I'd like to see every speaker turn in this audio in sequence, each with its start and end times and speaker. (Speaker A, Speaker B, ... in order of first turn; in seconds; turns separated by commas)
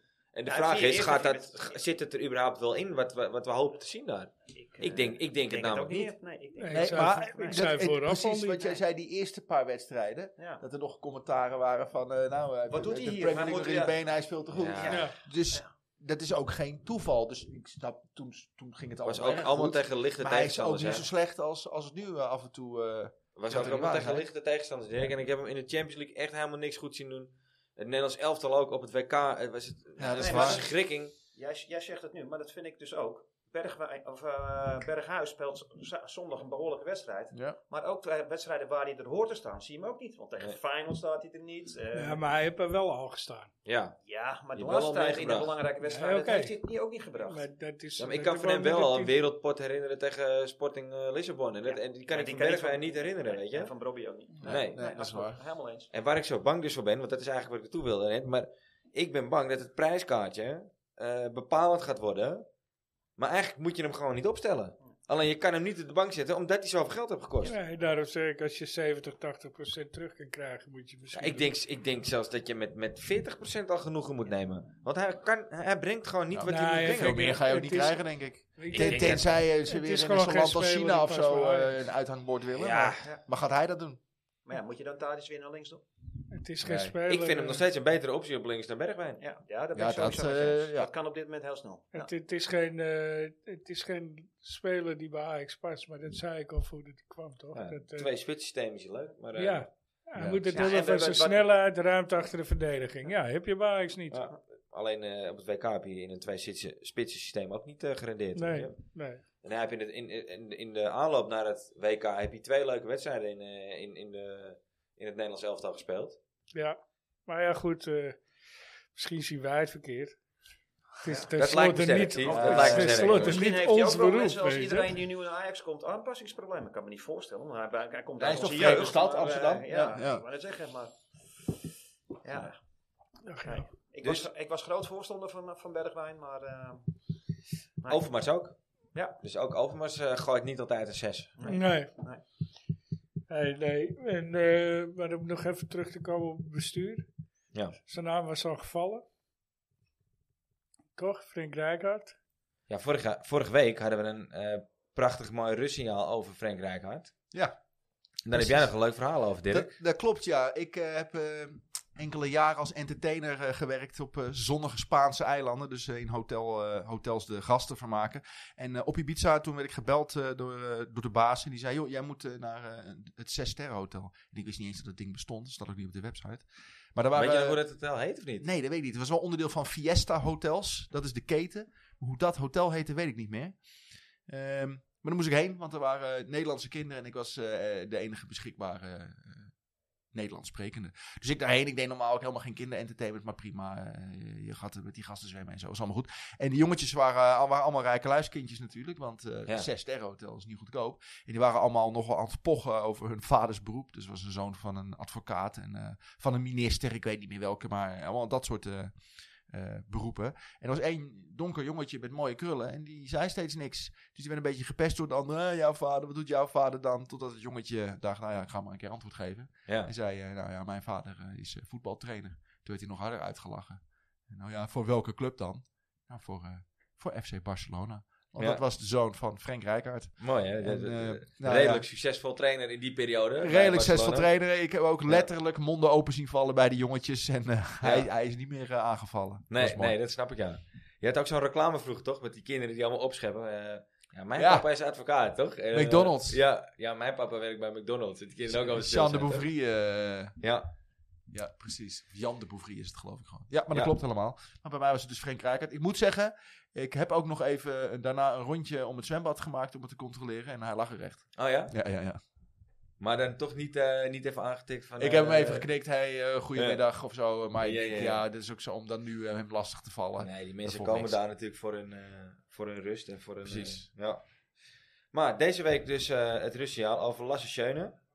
Speaker A: 0.3-6.1, Speaker B: 0.5-1.8, Speaker B: 4.5-7.6, Speaker C: 6.6-8.6, Speaker D: 6.7-24.3, Speaker B: 10.4-10.6, Speaker B: 12.7-14.0, Speaker A: 14.5-15.0, Speaker B: 14.8-15.7, Speaker C: 14.9-15.2, Speaker A: 19.1-21.1, Speaker A: 23.4-31.1, Speaker D: 30.0-30.6, Speaker B: 30.2-30.7, Speaker B: 31.3-42.2, Speaker D: 37.3-37.6, Speaker C: 42.0-43.5, Speaker A: 43.6-44.0, Speaker B: 44.0-47.5, Speaker A: 44.5-45.6, Speaker C: 45.8-46.5, Speaker C: 47.2-49.2, Speaker A: 48.0-53.7, Speaker B: 51.6-55.9, Speaker D: 54.4-55.4, Speaker A: 54.5-54.9, Speaker A: 55.9-62.5, Speaker A: 63.2-67.6, Speaker C: 67.4-71.5, Speaker A: 71.1-77.4, Speaker D: 76.3-84.0, Speaker C: 76.5-81.8, Speaker A: 78.7-79.3, Speaker A: 82.5-83.1, Speaker B: 84.5-85.8, Speaker C: 86.3-87.6, Speaker A: 86.7-89.2, Speaker B: 89.2-92.1, Speaker D: 89.8-90.9, Speaker C: 91.9-98.1, Speaker A: 97.5-99.7, Speaker C: 99.4-104.2, Speaker B: 100.5-101.5, Speaker A: 104.1-108.8, Speaker C: 108.4-109.2, Speaker A: 109.4-116.2, Speaker C: 116.5-118.2, Speaker C: 118.9-120.2, Speaker C: 121.0-125.0, Speaker B: 121.0-121.3, Speaker A: 121.4-123.4, Speaker D: 122.3-123.3, Speaker B: 122.4-131.5, Speaker D: 128.2-130.2, Speaker A: 128.2-128.9, Speaker B: 132.2-132.6, Speaker C: 133.2-133.7, Speaker B: 133.4-136.9, Speaker A: 134.0-134.3, Speaker B: 137.8-138.1, Speaker A: 137.9-138.6, Speaker A: 139.2-141.4, Speaker B: 141.4-142.2, Speaker C: 141.5-141.9, Speaker C: 143.3-147.1, Speaker C: 147.9-149.1, Speaker C: 151.0-152.2, Speaker A: 152.7-157.1, Speaker A: 158.2-159.7, Speaker D: 158.3-158.8, Speaker D: 159.5-177.6, Speaker A: 177.1-178.5, Speaker D: 178.4-183.6, Speaker D: 184.3-189.5, Speaker D: 190.1-209.0, Speaker D: 209.5-231.8, Speaker A: 228.4-228.6, Speaker A: 230.2-234.3, Speaker D: 233.4-240.0, Speaker A: 237.8-238.1, Speaker A: 239.5-249.4, Speaker D: 244.4-244.7, Speaker D: 245.7-246.4, Speaker D: 248.5-250.4, Speaker A: 250.4-250.7, Speaker D: 251.3-262.2, Speaker A: 261.4-261.7, Speaker A: 263.0-265.7, Speaker D: 265.0-271.2, Speaker A: 266.6-266.8, Speaker A: 267.6-268.2, Speaker A: 270.2-274.2, Speaker D: 273.4-273.9, Speaker A: 275.1-278.0